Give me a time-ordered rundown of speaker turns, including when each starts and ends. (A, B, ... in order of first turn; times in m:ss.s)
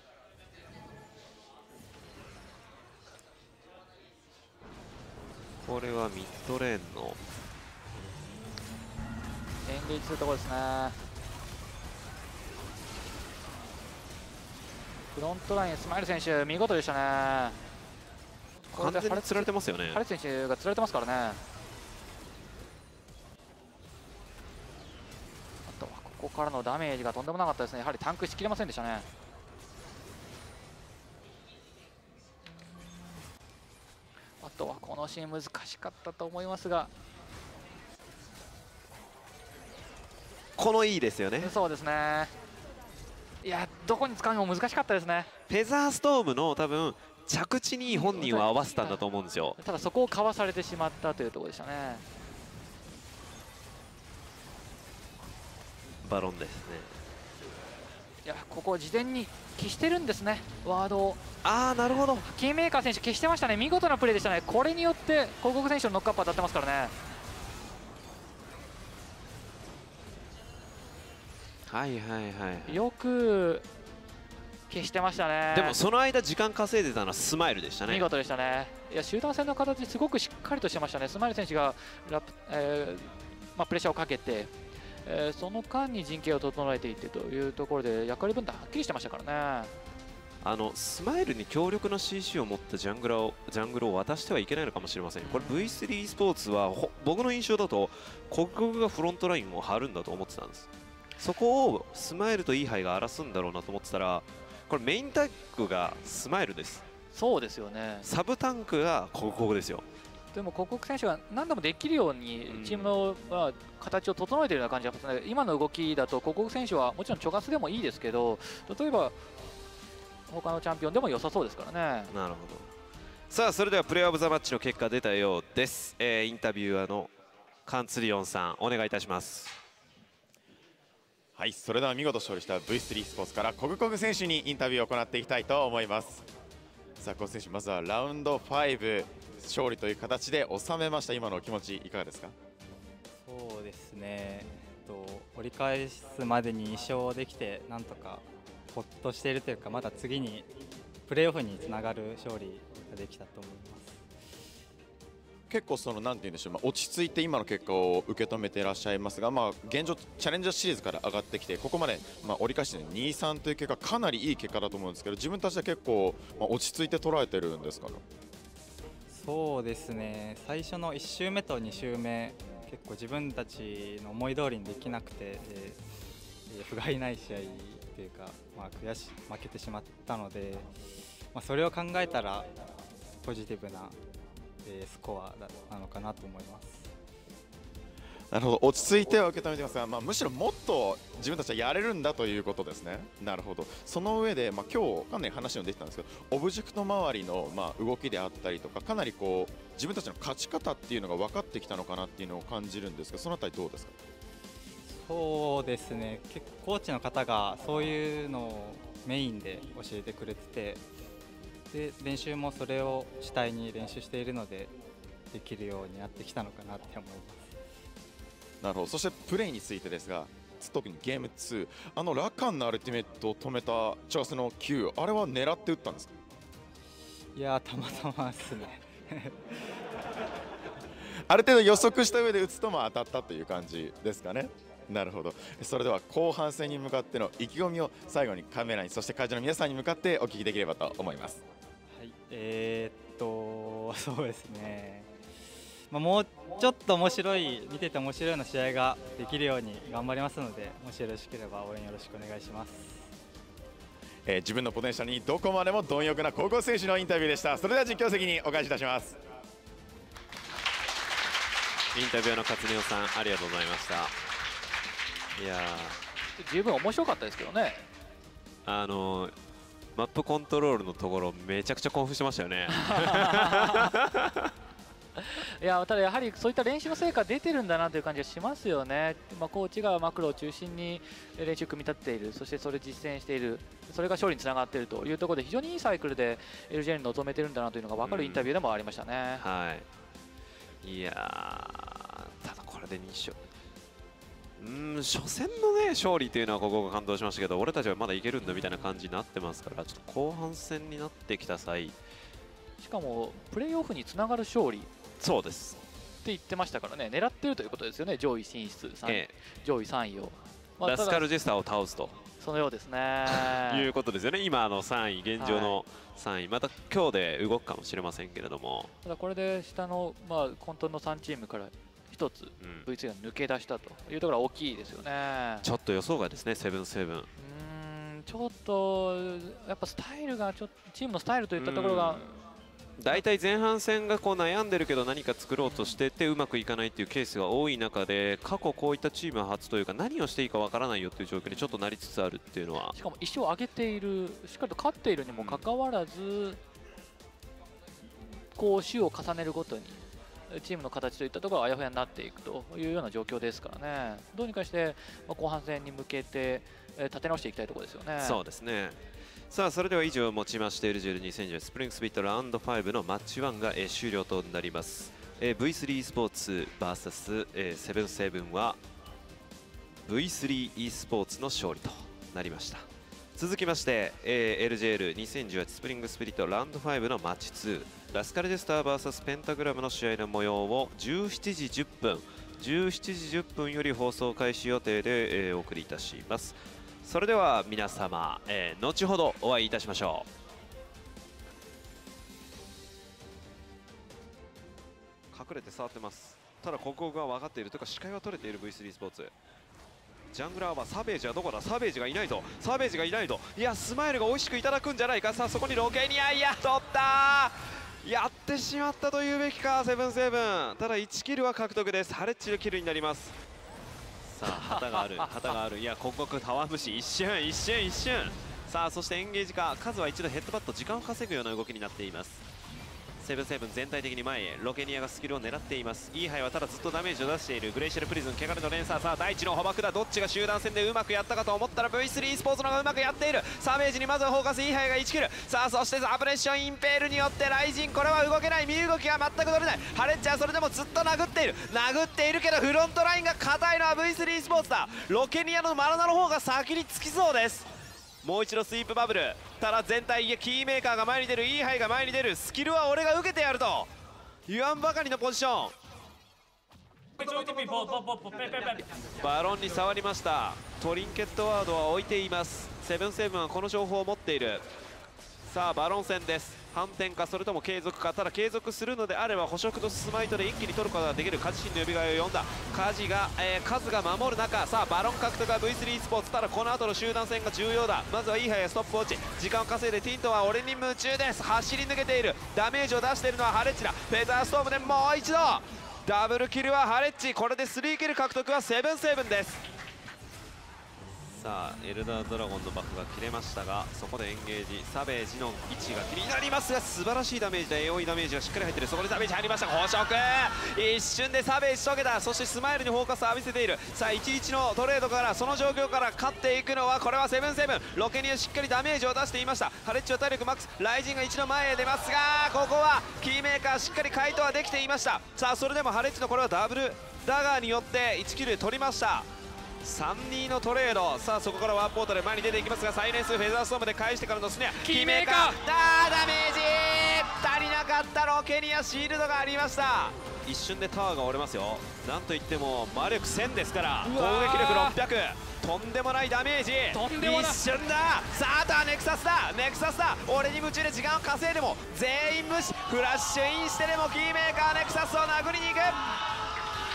0:05.6-0:07.2 A
0:09.6-0:11.0 B
0:15.2-0:17.6 B
0:18.7-0:21.4 B
0:18.8-0:20.0 A
0:25.7-0:29.1 B
0:32.6-0:33.2 B
0:34.4-0:36.9 B
0:40.6-0:41.5 A
0:41.4-0:42.3 B
0:43.4-0:45.3 B
0:45.5-0:49.6 A
0:47.9-0:49.0 B
0:49.6-0:52.0 B
0:56.0-0:57.0 A
0:58.2-1:01.2 B
1:01.4-1:02.3 A
1:02.2-1:06.9 B
1:11.7-1:12.8 A
1:12.7-1:13.7 B
1:14.7-1:15.8 B
1:15.5-1:18.1 A
1:17.9-1:24.5 B
1:25.0-1:29.7 B
1:30.4-1:46.8 A
1:35.2-1:35.8 B
1:47.1-1:48.0 B
1:48.0-1:49.8 A
1:50.3-1:59.2 B
1:52.5-1:53.0 A
2:00.3-2:02.1 B
2:02.1-2:02.7 A
2:03.3-2:07.1 A
2:07.7-2:09.6 A
2:11.4-2:16.2 C
2:17.0-2:22.4 C
2:23.2-2:30.5 D
2:31.1-2:34.0 D
2:35.5-2:48.0 C
2:49.1-2:55.8 D
2:56.5-3:00.7 D
3:01.3-3:02.5 D
3:03.2-3:04.0 D
3:04.6-3:06.9 D
3:08.3-3:23.9 C
3:24.9-3:30.8 D
3:31.7-3:34.7 D
3:35.3-3:37.5 D
3:38.6-3:46.1 C
3:47.4-3:49.7 D
3:51.3-4:01.4 C
4:01.9-4:05.1 D
4:05.9-4:13.1 D
4:14.3-4:19.2 C
4:21.9-4:24.2 A
4:25.4-4:26.0 A
4:26.4-4:27.8 B
4:28.6-4:29.4 A
4:30.0-4:34.5 A
4:32.7-4:33.9 B
4:35.2-4:49.4 B
4:48.0-4:48.5 A
4:49.4-4:49.9 A
4:50.8-4:53.4 A
4:54.6-5:02.0 A
5:02.8-5:04.9 B
5:05.2-5:05.8 A
5:06.2-5:11.2 B
5:09.0-5:09.3 A
5:10.8-5:12.2 A
5:12.4-5:13.9 B
5:13.3-5:18.9 A
5:15.4-5:15.8 B
5:19.0-5:25.7 B
5:22.6-5:22.9 A
5:25.6-5:27.3 A
5:27.4-5:32.4 B
5:31.6-5:32.3 A
5:33.0-5:43.0 A
5:35.6-5:36.0 B
5:43.0-5:46.6 B
5:45.3-5:45.7 A
5:48.6-5:58.4 B
5:58.2-6:08.8 A
6:10.0-6:30.3 A
6:35.3-6:39.3 A
6:40.3-6:53.4 A
6:54.2-7:02.4 A
6:54.5-6:55.3 B
7:03.2-7:27.7 A
7:28.2-7:33.9 A
7:34.5-7:35.8 A
7:37.2-7:44.7 A
7:45.4-8:09.7 A
8:11.3-8:39.3 A
8:39.8-9:06.1 A
8:44.8-8:45.6 B
8:54.0-8:55.0 B
8:56.9-8:57.6 B